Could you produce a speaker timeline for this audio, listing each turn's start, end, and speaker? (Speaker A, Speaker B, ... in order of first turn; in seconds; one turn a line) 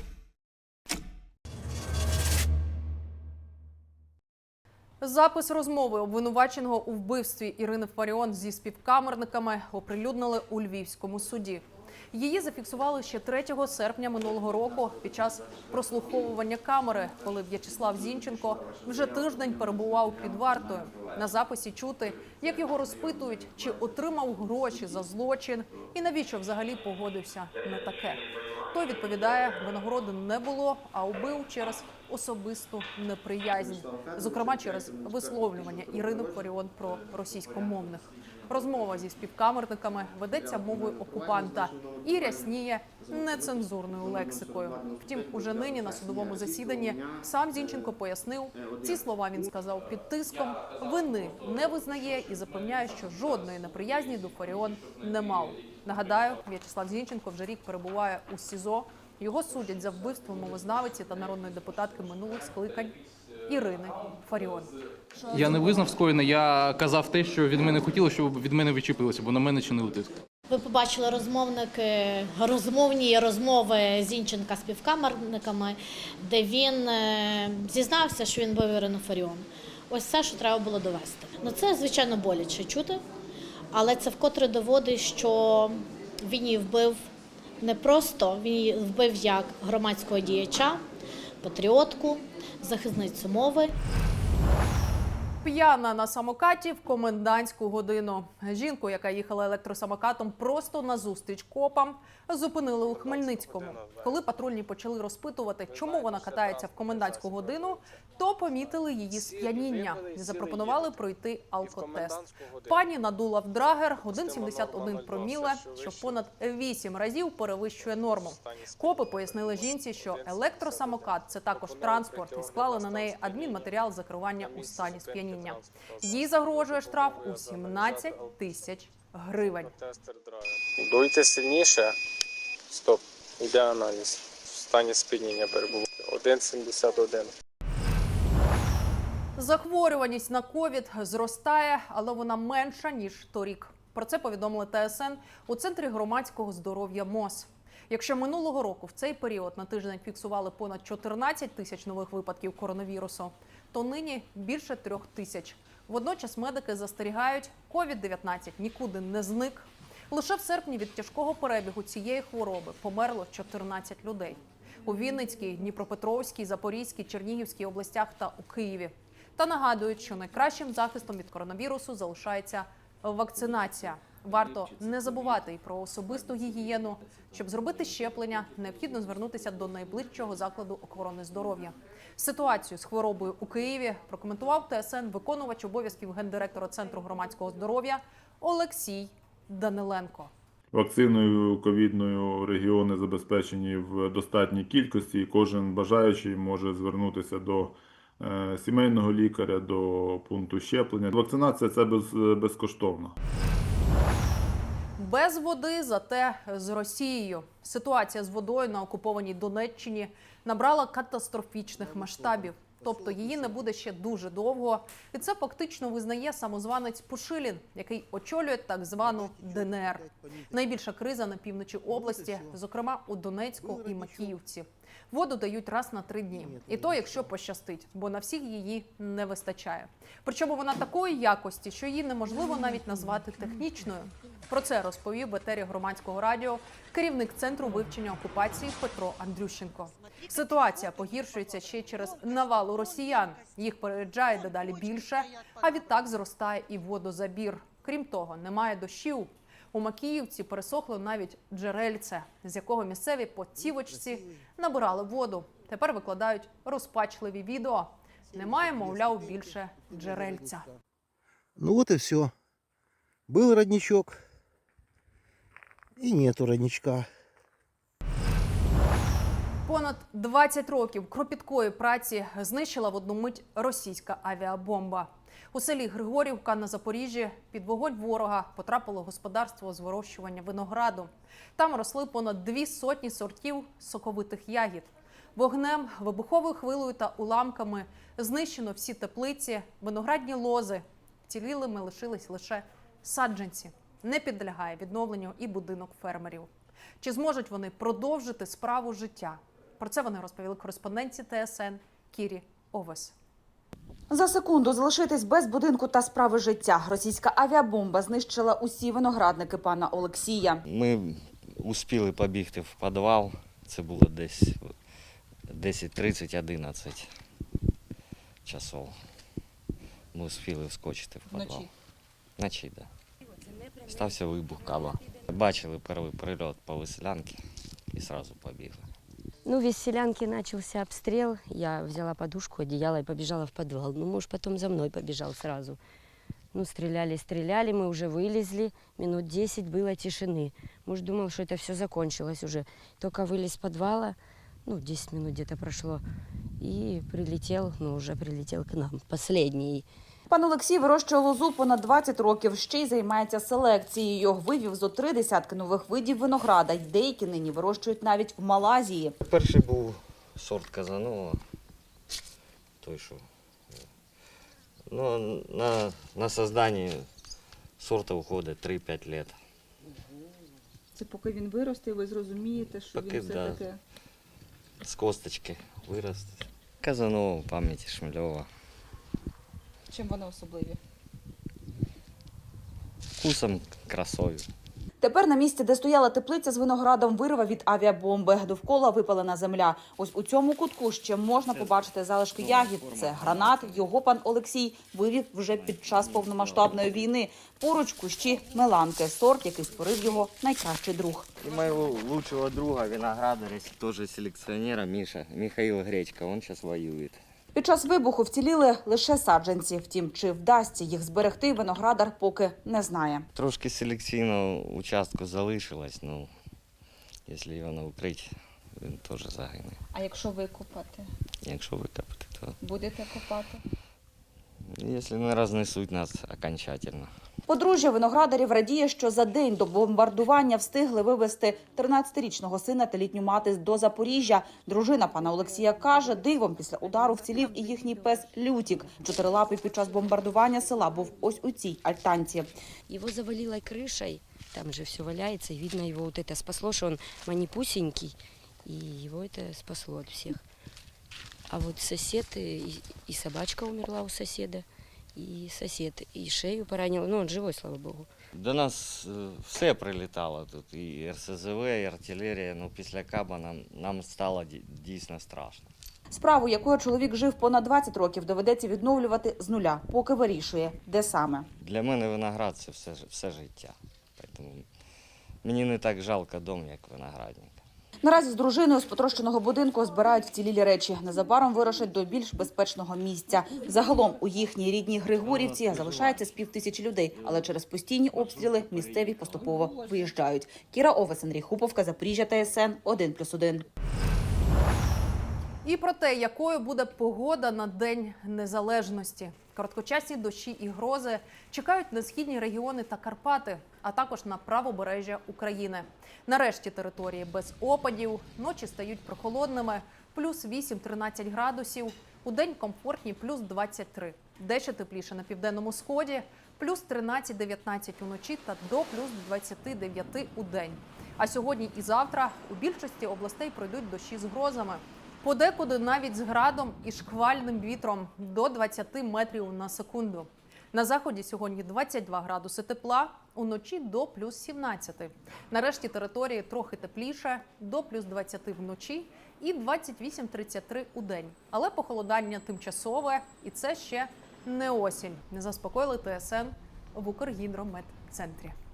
Speaker A: 5.0-64.7
Speaker B: 65.3-70.1
Speaker C: 70.5-83.0
Speaker C: 83.7-87.0
Speaker C: 87.6-90.8
Speaker C: 91.4-93.7
Speaker A: 95.4-129.7
Speaker D: 102.8-104.2
Speaker D: 105.7-108.0
Speaker D: 109.1-111.0
Speaker D: 111.6-112.8
Speaker D: 114.1-116.2
Speaker D: 117.8-123.8
Speaker D: 124.3-128.2
Speaker D: 129.4-132.0
Speaker D: 132.7-137.3
Speaker A: 139.4-190.3
Speaker E: 190.7-203.2
Speaker A: 205.0-260.7
Speaker F: 261.6-262.3
Speaker F: 263.3-264.2
Speaker F: 266.0-267.1
Speaker A: 269.7-296.5
Speaker A: 297.0-303.1
Speaker G: 304.1-310.6
Speaker H: 310.7-314.7
Speaker H: 315.5-317.1
Speaker H: 318.4-318.9
Speaker H: 320.1-321.7
Speaker I: 321.3-321.7
Speaker H: 322.4-322.9
Speaker H: 323.8-327.4
Speaker H: 327.9-328.9
Speaker J: 329.4-335.8
Speaker J: 336.5-346.0
Speaker J: 346.6-349.9
Speaker G: 350.3-359.1
Speaker H: 359.2-361.4
Speaker H: 362.8-363.8
Speaker H: 364.9-367.0
Speaker H: 367.8-369.4
Speaker I: 370.9-373.8
Speaker H: 372.7-373.6
Speaker H: 374.8-378.5
Speaker I: 379.9-380.8
Speaker H: 383.2-384.5
Speaker G: 385.0-401.3
Speaker H: 401.4-407.2
Speaker G: 407.6-413.3
Speaker H: 413.4-416.3
Speaker H: 417.3-419.8
Speaker I: 419.9-421.1
Speaker H: 421.4-422.6
Speaker I: 422.6-423.6
Speaker H: 424.8-427.1
Speaker G: 427.5-442.5
Speaker J: 442.9-450.4
Speaker J: 451.5-458.1
Speaker H: 458.3-465.7
Speaker G: 466.1-471.5
Speaker H: 471.6-474.6
Speaker H: 475.4-477.6
Speaker G: 478.0-493.6
Speaker A: 495.6-548.5